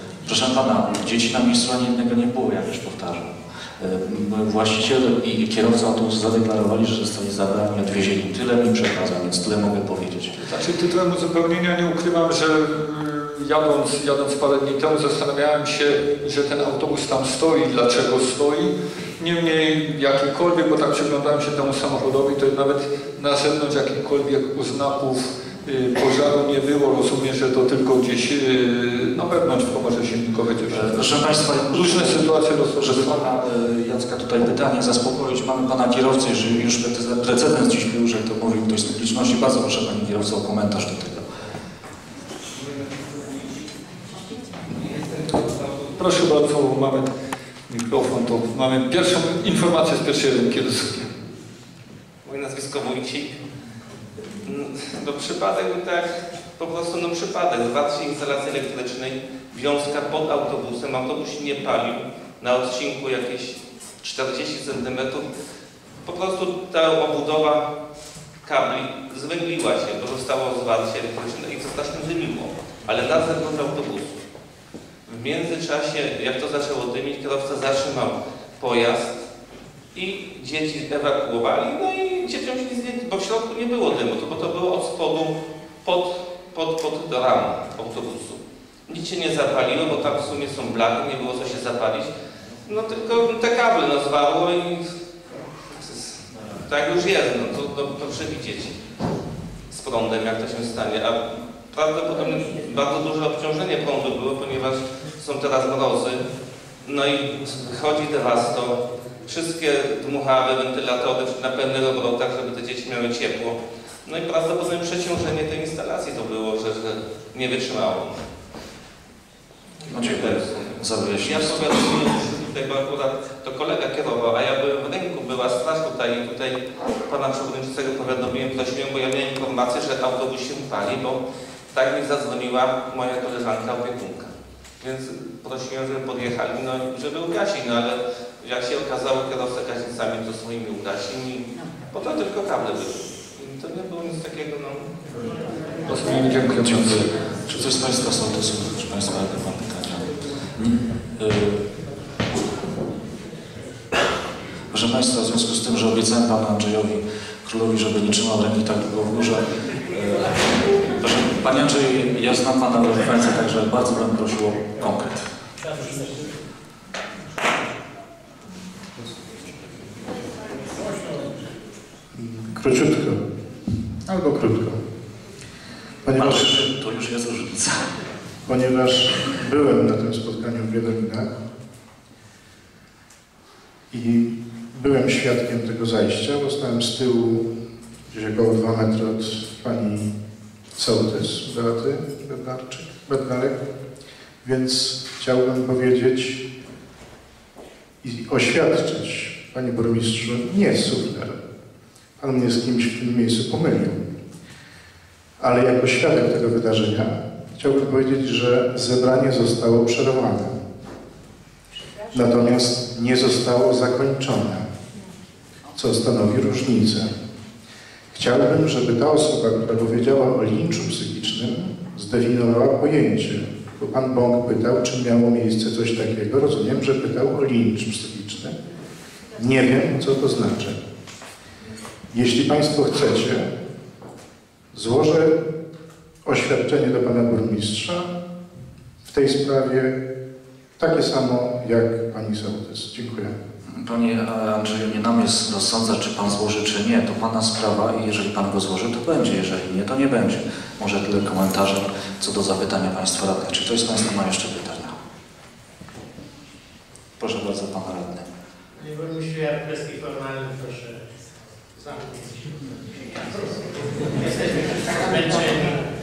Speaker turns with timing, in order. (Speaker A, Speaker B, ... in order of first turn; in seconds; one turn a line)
Speaker A: 0.2-10.3
Speaker B: 10.4-33.3
Speaker A: 30.7-41.3
Speaker C: 42.5-43.7
Speaker C: 44.7-46.0
Speaker B: 46.0-47.1
Speaker B: 47.7-51.1
Speaker C: 52.2-53.4
Speaker C: 54.4-65.3
Speaker C: 66.0-67.7
Speaker C: 68.4-74.2
Speaker C: 75.1-79.2
Speaker C: 79.9-92.1
Speaker C: 92.7-94.9
Speaker C: 95.8-98.8
Speaker C: 99.7-106.2
Speaker C: 106.8-118.2
Speaker A: 119.9-121.9
Speaker C: 119.9-144.9
Speaker B: 145.9-147.1
Speaker A: 146.6-151.6
Speaker A: 154.7-165.3
Speaker D: 172.1-173.2
Speaker D: 174.1-174.8
Speaker D: 176.0-176.6
Speaker A: 176.1-177.9
Speaker D: 178.4-181.3
Speaker D: 183.9-187.5
Speaker D: 188.1-190.1
Speaker D: 190.7-193.6
Speaker D: 194.4-196.4
Speaker D: 198.0-201.4
Speaker D: 202.2-204.0
Speaker D: 205.4-210.5
Speaker D: 212.1-214.7
Speaker D: 215.7-217.1
Speaker D: 218.1-228.6
Speaker D: 229.3-230.8
Speaker D: 232.1-233.5
Speaker D: 234.7-235.4
Speaker D: 236.2-238.1
Speaker D: 239.0-240.0
Speaker D: 240.8-243.3
Speaker A: 243.6-254.9
Speaker A: 257.2-258.2
Speaker E: 258.8-261.0
Speaker E: 261.7-265.8